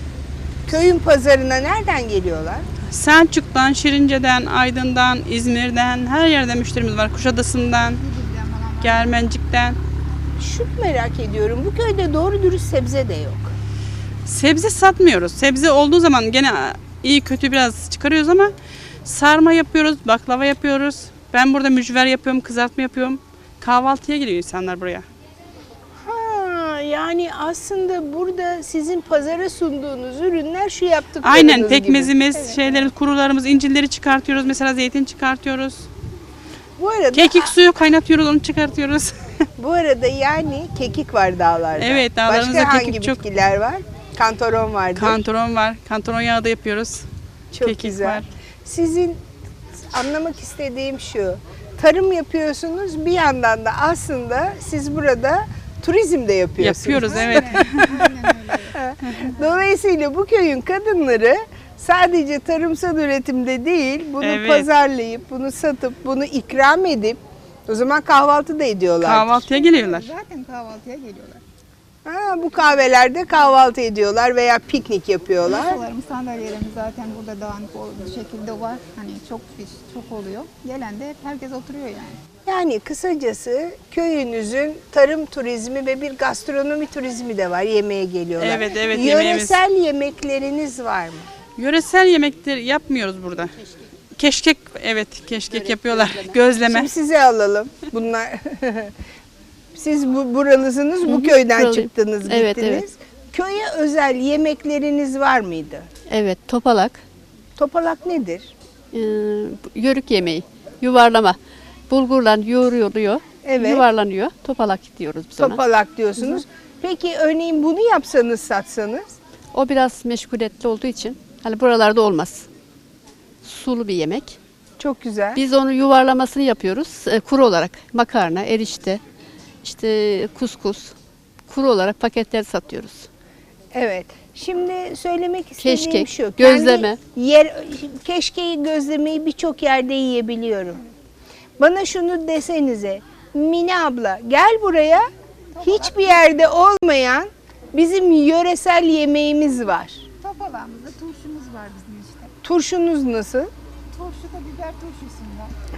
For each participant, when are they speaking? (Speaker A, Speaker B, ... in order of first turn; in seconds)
Speaker A: 0.7-2.6, 10.4-13.5, 26.0-32.6, 36.8-37.5, 39.6-45.2, 47.5-49.2, 49.8-58.1, 58.7-69.5, 72.0-75.8, 82.5-91.3, 96.6-98.9, 99.7-105.9, 107.5-108.5, 113.4-113.8, 115.4-119.0, 124.8-125.4, 133.7-140.8, 141.6-145.1, 145.6-150.0, 152.4-153.5
Speaker B: 2.9-8.0, 8.8-9.8, 14.2-18.5, 19.0-25.1, 31.2-35.9, 37.1-39.4, 41.8-43.2, 44.9-47.1, 47.6-48.2, 56.6-58.1, 64.2-64.7, 69.0-70.1, 88.4-89.6, 91.6-93.5, 94.2-96.9
Speaker C: 8.0-9.1, 57.0-58.8, 69.5-71.4, 75.5-82.2, 145.5-146.4, 150.2-152.3, 153.9-155.5
Speaker D: 95.5-96.4, 101.0-102.8, 106.1-107.0, 108.9-111.4, 111.9-115.6, 119.5-122.5, 123.4-124.4, 125.3-129.0, 129.6-130.9, 131.5-133.1, 135.6-137.0